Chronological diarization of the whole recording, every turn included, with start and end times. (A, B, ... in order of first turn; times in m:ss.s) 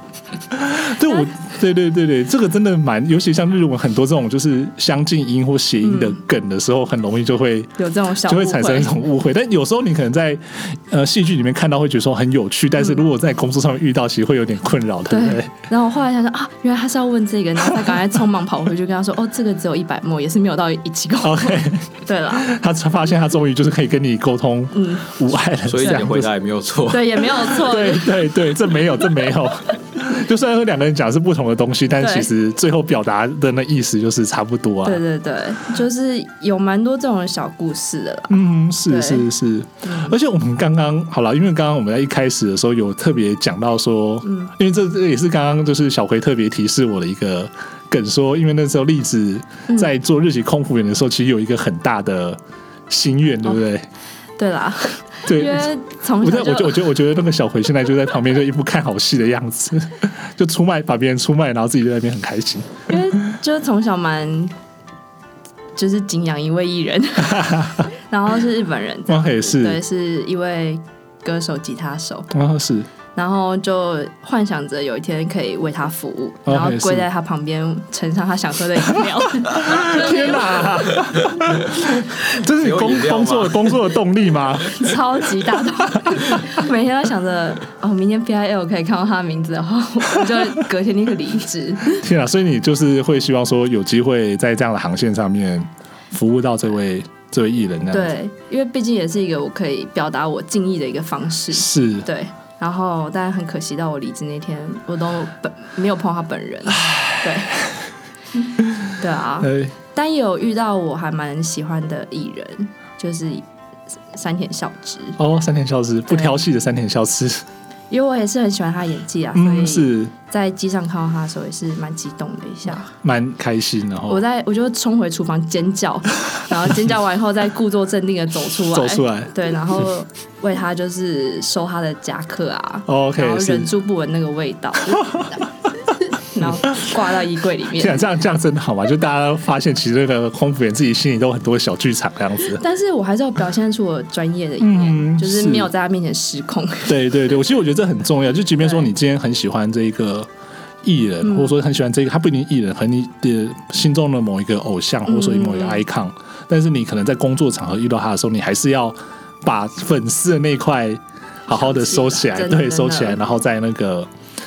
0:00.5-0:15.5 A
0:05.8-0:06.2 B
0:07.8-0:09.0 B
0:15.1-0:22.5 B
0:17.7-0:18.0 A
0:21.2-0:26.3 A
0:24.7-0:25.1 B
0:25.6-0:27.6 C
0:26.9-0:28.5 B
0:27.4-0:35.0 A
0:32.0-0:32.3 B
0:34.8-0:39.3 B
0:38.3-0:53.9 A
0:39.8-0:40.1 B
0:44.2-0:44.5 B
0:54.4-0:56.8 B
0:55.2-0:55.6 A
0:56.2-1:03.0 A
1:02.9-1:04.5 B
1:05.8-1:12.3 B
1:07.2-1:07.8 A
1:09.1-1:09.8 A
1:12.3-1:12.9 A
1:13.1-1:21.0 B
1:16.5-1:17.0 A
1:19.4-1:26.6 A
1:22.5-1:23.8 C
1:24.7-1:32.0 B
1:31.9-1:38.1 A
1:37.9-1:47.6 B
1:41.5-1:42.1 A
1:46.7-1:47.7 A
1:48.6-1:49.8 A
1:49.0-1:53.4 B
1:54.1-1:55.2 B
1:55.2-1:57.5 A
1:56.1-1:56.4 B
1:57.9-2:02.9 B
1:59.3-2:00.1 A
2:02.9-2:04.2 A
2:04.1-2:15.4 B
2:08.6-2:09.3 A
2:12.9-2:13.7 A
2:14.9-2:15.4 A
2:16.2-2:18.1 B
2:16.4-2:17.0 A
2:17.7-2:22.6 A
2:22.5-2:27.1 B
2:24.6-2:25.7 A
2:26.9-2:30.3 A
2:28.6-2:28.9 B
2:30.8-2:44.1 A
2:31.2-2:31.5 B
2:35.0-2:35.8 B
2:41.5-2:43.2 B